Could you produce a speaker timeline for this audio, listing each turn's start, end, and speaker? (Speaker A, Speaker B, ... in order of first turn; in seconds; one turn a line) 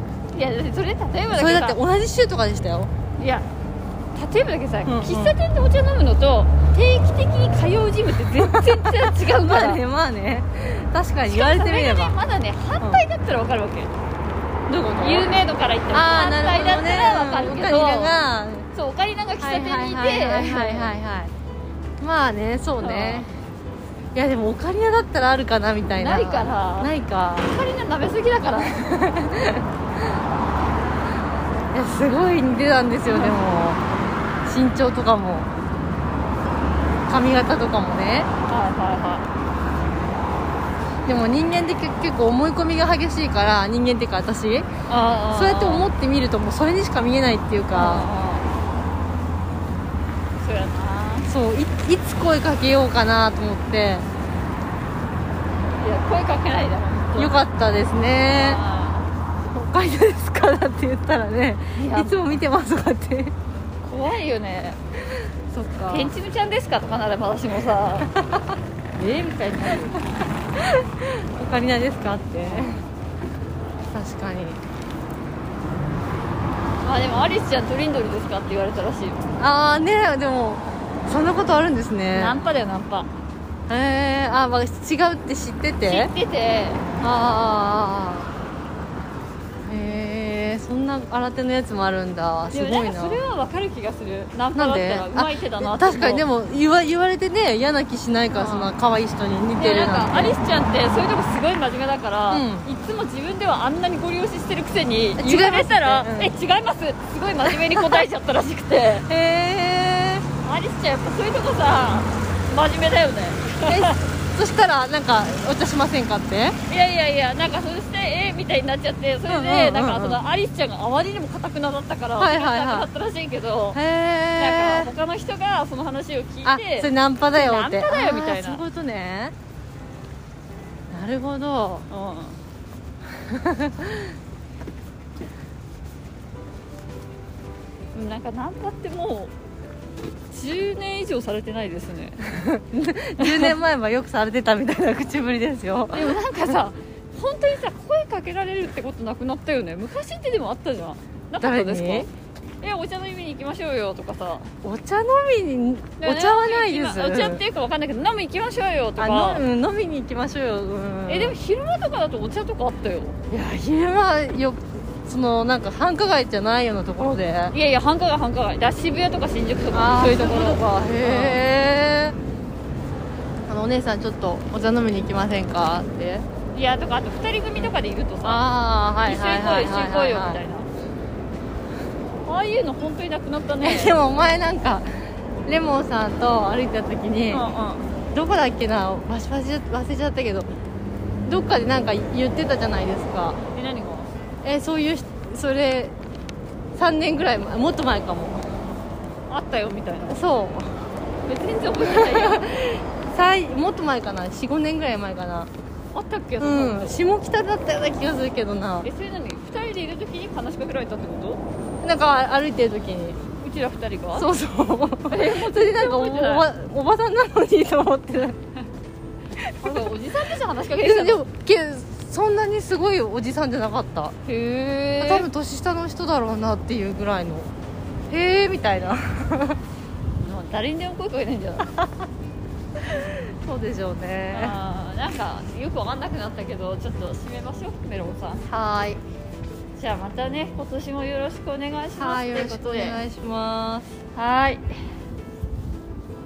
Speaker A: 0.3-1.8
Speaker B: 1.3-2.9
Speaker A: 3.2-3.5
Speaker A: 4.2-9.8
Speaker B: 4.8-5.4
Speaker B: 8.3-12.2
Speaker A: 11.3-13.9
Speaker B: 14.7-18.7
Speaker A: 15.0-18.1
Speaker A: 18.7-20.9
Speaker B: 19.4-21.3
Speaker B: 22.0-23.3
Speaker A: 22.8-23.3
Speaker B: 24.1-27.5
Speaker A: 25.9-26.9
Speaker A: 27.4-28.9
Speaker B: 28.6-29.7
Speaker B: 31.7-33.8
Speaker A: 33.1-33.4
Speaker B: 34.5-35.5
Speaker B: 37.1-38.3
Speaker A: 38.5-39.3
Speaker B: 41.1-44.7
Speaker A: 44.9-45.9
Speaker B: 45.3-48.1
Speaker A: 47.8-48.5
Speaker A: 50.4-51.3
Speaker B: 51.3-54.1
Speaker A: 55.8-57.4
Speaker B: 57.2-58.6
Speaker A: 58.3-59.1
Speaker B: 59.5-63.3
Speaker A: 61.8-62.4
Speaker A: 63.8-64.8
Speaker B: 65.2-66.1
Speaker A: 65.9-68.1
Speaker A: 69.0-70.0
Speaker B: 70.5-72.8
Speaker A: 72.4-72.8
Speaker B: 73.9-74.6
Speaker A: 76.8-79.2
Speaker B: 79.4-82.4
Speaker A: 82.1-83.1
Speaker B: 83.7-86.1
Speaker A: 85.8-86.8
Speaker B: 87.0-88.3
Speaker B: 89.7-93.2
Speaker A: 92.5-96.3
Speaker B: 94.5-100.4
Speaker A: 98.3-98.7
Speaker A: 99.6-109.1
Speaker B: 102.3-102.7
Speaker B: 105.2-106.3
Speaker B: 107.4-108.0
Speaker B: 109.1-110.3
Speaker A: 110.4-114.0
Speaker B: 113.7-116.6
Speaker A: 116.7-123.8
Speaker B: 119.3-120.2
Speaker B: 122.2-122.9
Speaker B: 123.7-124.9
Speaker A: 124.4-128.6
Speaker B: 126.4-129.3
Speaker B: 130.9-131.9
Speaker A: 131.9-132.4
Speaker B: 133.2-134.2
Speaker A: 137.9-139.3
Speaker A: 140.3-142.4
Speaker B: 142.2-146.2
Speaker A: 143.2-143.6
Speaker A: 145.9-152.1
Speaker B: 151.4-152.1
Speaker A: 152.6-154.5
Speaker B: 154.6-157.4
Speaker A: 156.0-159.4
Speaker B: 159.0-161.3
Speaker A: 161.1-163.2
Speaker B: 163.3-167.6
Speaker A: 167.5-171.4
Speaker B: 169.7-172.2
Speaker B: 173.5-176.3
Speaker A: 176.5-178.4
Speaker B: 178.2-180.4
Speaker A: 179.1-180.7
Speaker A: 182.3-184.0
Speaker B: 183.6-184.9
Speaker B: 185.4-187.4
Speaker A: 187.3-187.9
Speaker B: 188.1-190.5
Speaker B: 191.3-193.4
Speaker A: 193.5-194.1
Speaker B: 194.4-195.9
Speaker B: 196.8-198.5
Speaker A: 199.3-200.2
Speaker B: 200.1-200.8
Speaker A: 201.3-202.5
Speaker B: 201.8-205.5
Speaker A: 205.9-207.0
Speaker B: 206.4-208.9
Speaker A: 208.8-211.4
Speaker B: 211.8-213.2
Speaker A: 213.4-214.3
Speaker B: 214.1-218.4
Speaker A: 215.1-216.5
Speaker A: 219.6-221.2
Speaker B: 219.6-219.9
Speaker B: 220.8-224.2
Speaker A: 224.3-225.3
Speaker B: 225.0-227.5
Speaker B: 228.1-229.6
Speaker A: 230.2-231.8
Speaker B: 232.8-234.6
Speaker A: 234.3-238.5
Speaker B: 238.5-239.0
Speaker A: 239.8-243.0
Speaker B: 242.0-244.0
Speaker A: 244.2-244.6